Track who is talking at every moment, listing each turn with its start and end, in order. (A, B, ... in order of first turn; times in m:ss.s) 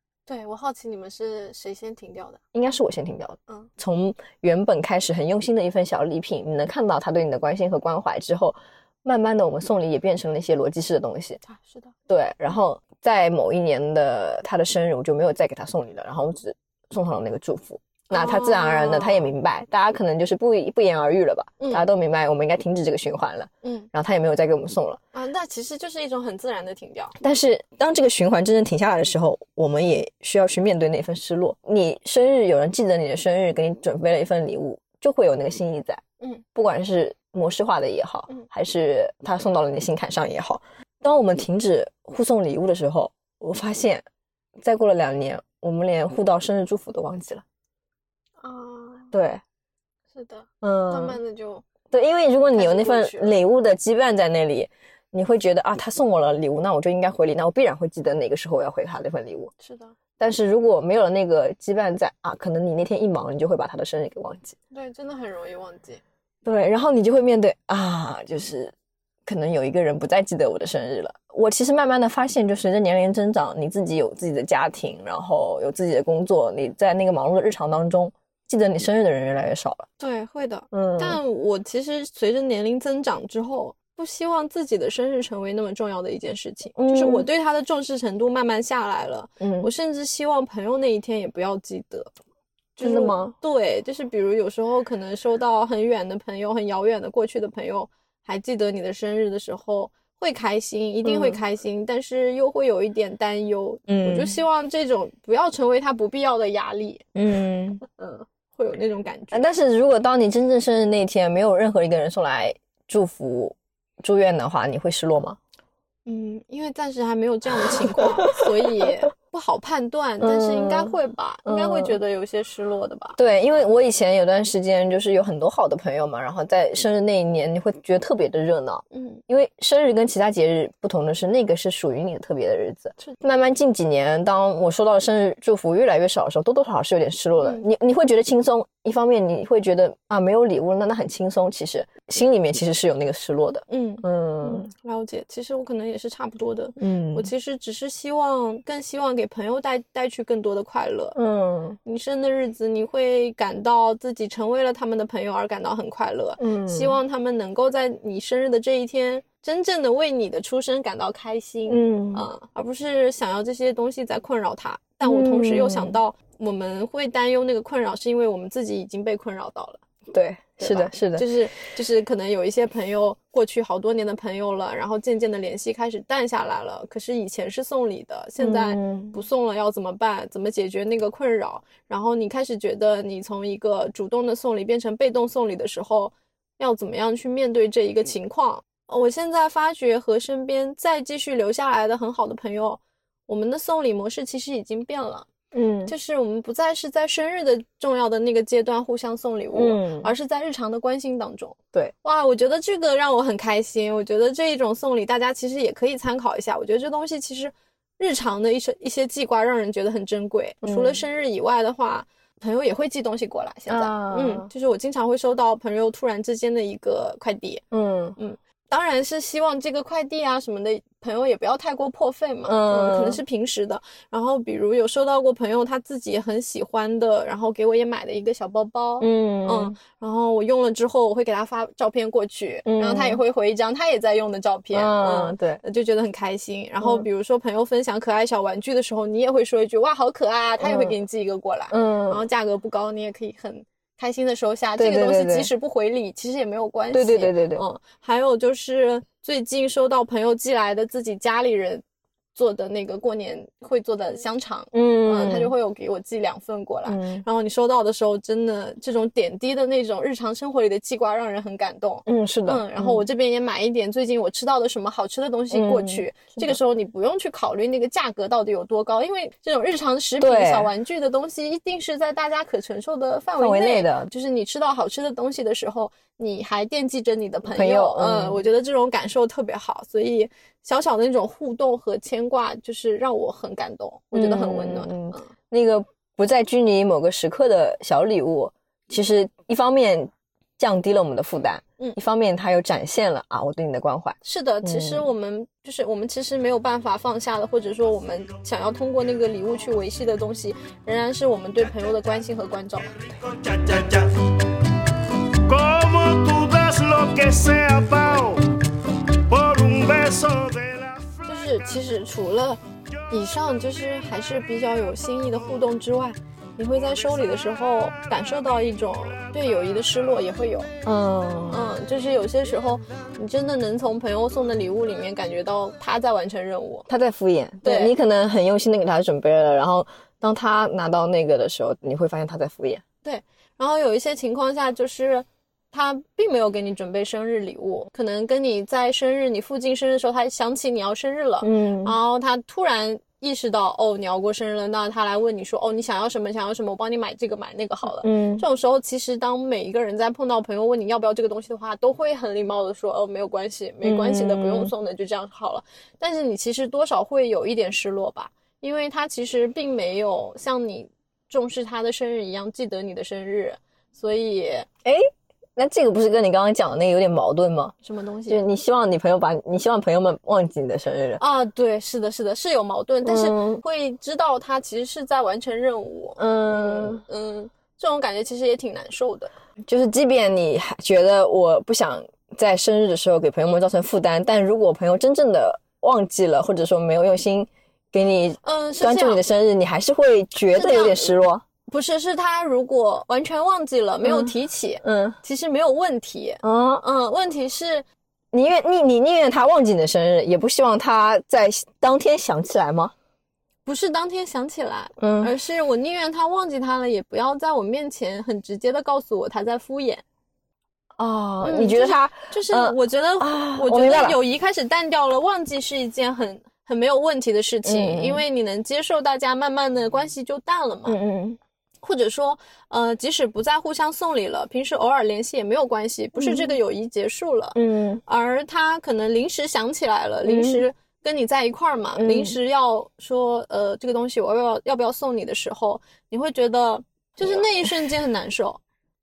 0:00.3-0:02.4 A
0:02.5-0:11.4 B
0:11.4-0:11.9 A
0:12.1-0:25.0 B
0:18.1-0:19.3 A
0:21.6-0:21.8 A
0:23.6-0:23.9 A
0:25.1-0:27.1 A
0:27.2-0:36.0 B
0:36.5-0:44.0 B
0:44.6-0:47.4 B
0:48.4-0:49.1 A
0:49.1-0:49.4 B
0:50.1-0:51.6 A
0:50.6-0:51.2 B
0:51.9-0:59.5 B
0:52.5-0:53.4 A
0:59.6-0:59.9 A
1:00.2-1:04.6 B
1:04.7-1:06.0 A
1:06.4-1:08.7 B
1:09.2-1:19.8 B
1:20.0-1:32.1 A
1:20.7-1:21.2 B
1:26.8-1:27.3 B
1:29.4-1:29.7 B
1:32.8-1:47.1 A
1:32.8-1:33.3 B
1:41.0-1:41.4 B
1:43.9-1:44.4 B
1:47.1-1:47.8 B
1:47.9-1:49.4 A
1:49.3-1:55.4 B
1:56.0-2:03.2 A
1:57.6-1:58.9 B
2:00.2-2:00.9 B
2:01.4-2:02.0 B
2:03.2-2:24.7 B
2:08.9-2:09.2 A
2:23.7-2:31.2 A
2:26.8-2:27.3 B
2:31.1-2:31.8 B
2:31.8-2:49.8 A
2:36.4-2:37.0 B
2:41.7-2:42.3 B
2:45.0-2:46.0 B
2:50.1-2:51.3 B
2:50.6-3:15.3 A
2:58.4-2:59.2 B
3:15.5-3:15.9 B
3:15.8-3:37.6 A
3:19.5-3:20.1 B
3:30.6-3:31.0 B
3:33.7-3:34.5 B
3:37.7-3:38.2 B
3:38.2-4:11.8 A
3:42.5-3:43.2 B
3:49.0-3:49.8 B
3:52.6-3:53.2 B
3:54.7-3:55.6 B
4:00.6-4:00.9 B
4:01.7-4:02.2 B
4:04.8-4:05.5 B
4:06.9-4:07.6 B
4:12.3-4:45.3 A
4:14.7-4:15.5 B
4:16.9-4:17.2 B
4:22.0-4:23.0 B
4:25.5-4:26.6 B
4:30.2-4:30.7 B
4:33.4-4:34.1 B
4:37.5-4:38.4 B
4:44.1-4:55.1 B
4:54.2-5:03.0 A
5:03.2-5:04.3 C
5:05.3-5:08.5 C
5:09.2-5:11.2 C
5:11.2-5:20.7 A
5:20.8-5:21.7 B
5:21.5-5:26.9 A
5:26.9-5:32.8 B
5:27.6-5:27.9 A
5:33.0-6:04.7 A
5:41.4-5:42.0 B
5:48.0-5:48.4 B
5:53.8-5:54.7 B
6:04.8-6:07.7 B
6:07.8-6:08.4 A
6:08.3-6:11.2 B
6:11.2-6:19.3 A
6:13.0-6:13.6 B
6:16.2-6:17.0 B
6:19.6-6:31.4 B
6:28.4-6:29.2 A
6:30.5-6:31.2 A
6:31.7-6:37.8 A
6:34.0-6:34.3 B
6:34.8-6:35.2 B
6:36.4-6:36.8 B
6:38.3-6:42.9 B
6:43.6-6:50.0 A
6:45.0-6:45.3 B
6:51.0-6:54.2 B
6:51.4-7:01.0 A
6:57.6-6:58.2 B
7:00.9-7:01.4 B
7:01.8-7:18.6 A
7:06.2-7:06.6 B
7:07.5-7:08.0 B
7:10.2-7:10.6 B
7:12.0-7:12.4 B
7:17.2-7:17.7 B